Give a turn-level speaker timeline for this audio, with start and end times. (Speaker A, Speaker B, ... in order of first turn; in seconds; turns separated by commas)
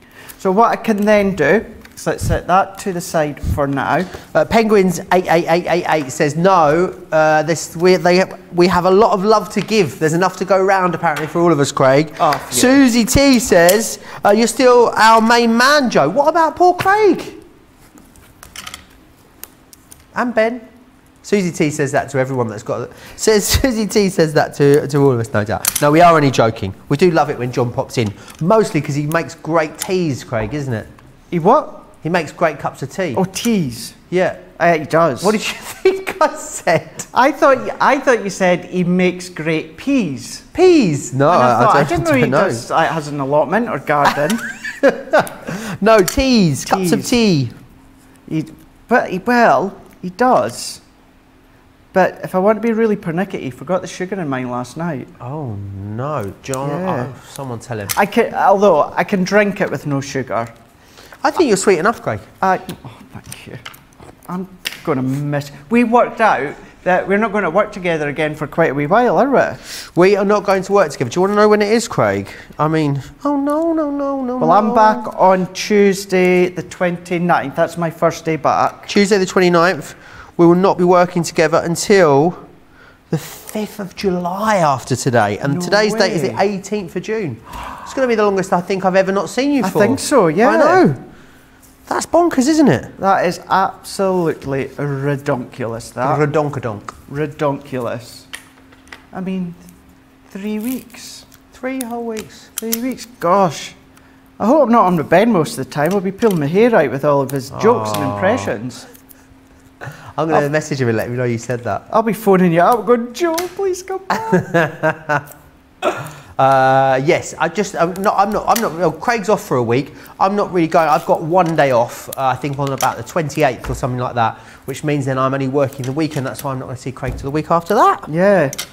Speaker A: 0.4-4.2, Speaker B: 4.2-17.4, Speaker A: 12.2-12.8, Speaker B: 20.1-20.7, Speaker B: 21.2-30.9, Speaker A: 31.3-31.9, Speaker B: 32.0-33.2, Speaker A: 33.1-34.0, Speaker B: 34.1-34.4, Speaker A: 34.6-35.4, Speaker B: 35.2-37.1, Speaker A: 37.1-40.5, Speaker B: 40.5-42.6, Speaker A: 41.3-44.5, Speaker B: 44.7-47.5, Speaker A: 46.6-47.1, Speaker A: 48.3-50.8, Speaker A: 51.9-55.1, Speaker B: 55.2-58.0, Speaker A: 56.6-57.1, Speaker A: 57.9-60.5, Speaker B: 61.2-62.3, Speaker A: 62.4-63.6, Speaker A: 64.3-69.6, Speaker B: 69.9-75.1, Speaker A: 74.4-78.9, Speaker B: 78.9-82.4, Speaker B: 83.1-91.0, Speaker A: 85.4-86.4, Speaker A: 89.6-90.9, Speaker B: 91.9-92.9, Speaker A: 93.0-96.2, Speaker B: 96.0-96.9, Speaker A: 97.1-98.3, Speaker A: 99.1-99.6, Speaker A: 100.3-101.3, Speaker B: 101.5-102.5, Speaker A: 102.6-103.8, Speaker A: 104.4-108.9, Speaker B: 107.5-108.5, Speaker B: 109.8-111.8, Speaker A: 111.9-114.5, Speaker B: 114.1-115.3, Speaker B: 115.8-128.1, Speaker A: 128.1-128.6